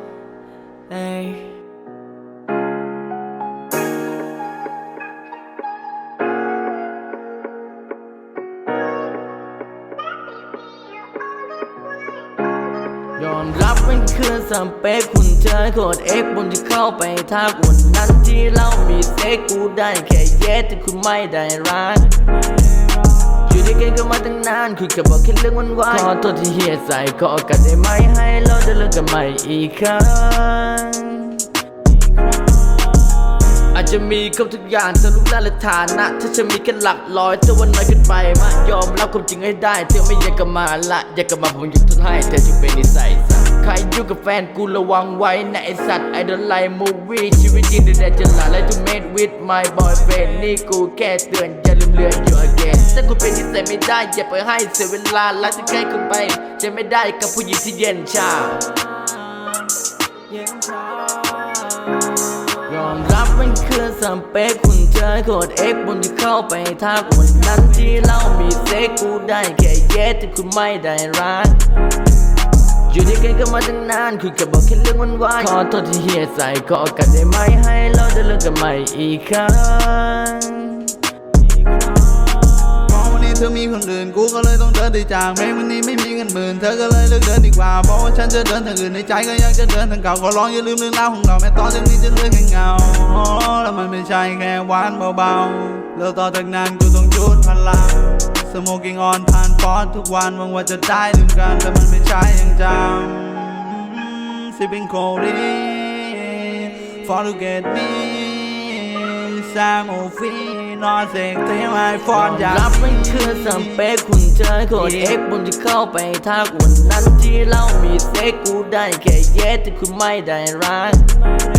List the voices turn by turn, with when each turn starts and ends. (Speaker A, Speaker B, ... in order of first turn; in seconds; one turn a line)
Speaker A: 0.9-1.5
Speaker A: 13.2-22.2
Speaker A: 23.4-31.5
Speaker A: 33.7-58.7
Speaker B: 59.0-59.5
Speaker B: 60.3-62.0
Speaker A: 62.7-71.6
Speaker A: 72.9-81.0
Speaker B: 82.8-113.8
Speaker A: 112.1-121.1
Speaker B: 114.8-115.1